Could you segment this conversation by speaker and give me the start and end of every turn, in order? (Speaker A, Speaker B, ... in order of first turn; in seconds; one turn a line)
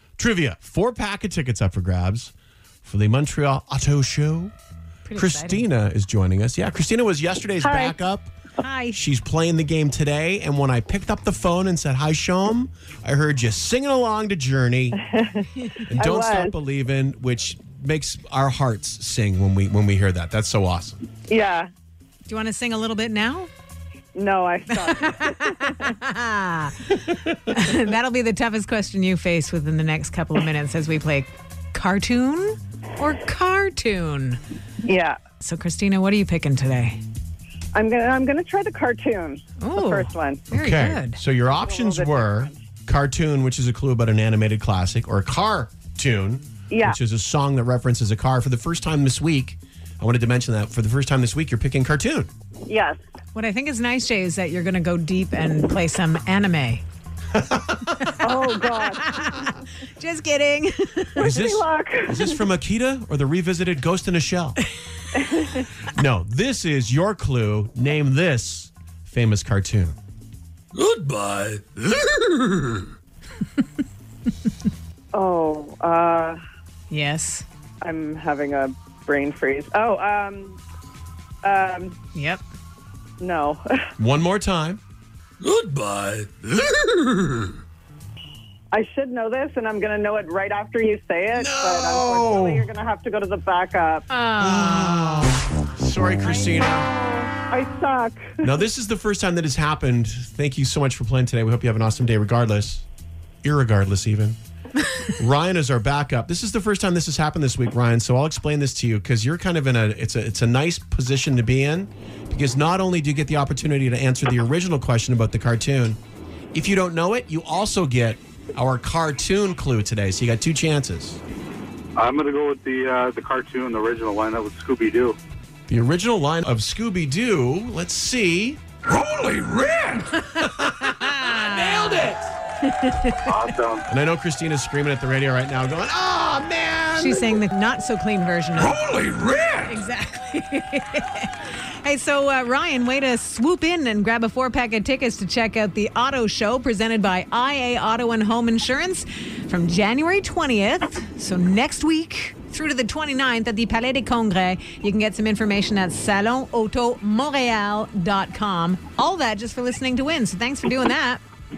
Speaker A: 0.2-2.3
Speaker A: 2.8-4.5
Speaker B: 5.0-5.7
Speaker A: 5.1-8.3
Speaker C: 7.6-8.0
Speaker B: 8.6-9.0
Speaker A: 8.9-15.0
Speaker C: 15.0-16.5
Speaker A: 15.9-21.0
Speaker C: 21.3-21.7
Speaker B: 22.2-23.5
Speaker C: 24.1-25.9
Speaker B: 24.9-34.4
Speaker C: 34.8-35.2
Speaker B: 35.4-37.0
Speaker C: 37.7-40.5
Speaker B: 39.6-41.2
Speaker A: 40.5-52.3
Speaker C: 41.5-42.6
Speaker C: 46.7-47.0
Speaker C: 52.7-53.0
Speaker B: 53.3-56.8
Speaker A: 57.4-58.0
Speaker C: 58.2-59.0
Speaker B: 58.9-61.3
Speaker C: 61.2-62.4
Speaker A: 61.2-64.6
Speaker C: 65.1-65.6
Speaker A: 65.9-70.0
Speaker D: 70.7-72.8
Speaker C: 75.1-76.4
Speaker B: 76.9-77.4
Speaker C: 77.8-80.6
Speaker C: 81.4-82.0
Speaker B: 82.1-82.4
Speaker C: 83.2-83.9
Speaker A: 84.0-84.8
Speaker D: 85.4-87.5
Speaker C: 88.7-94.0
Speaker A: 91.3-92.7
Speaker B: 94.1-95.3
Speaker A: 94.4-96.9
Speaker C: 96.2-98.6
Speaker A: 98.4-102.8
Speaker A: 103.4-104.4
Speaker A: 105.2-116.0
Speaker A: 116.5-121.2
Speaker E: 122.0-125.2
Speaker A: 125.7-128.6
Speaker D: 128.8-130.2
Speaker B: 130.3-133.3
Speaker D: 131.1-132.2
Speaker E: 133.2-133.8
Speaker A: 133.9-137.4
Speaker B: 136.9-138.9
Speaker D: 138.7-139.7
Speaker B: 139.6-141.3
Speaker B: 141.8-161.2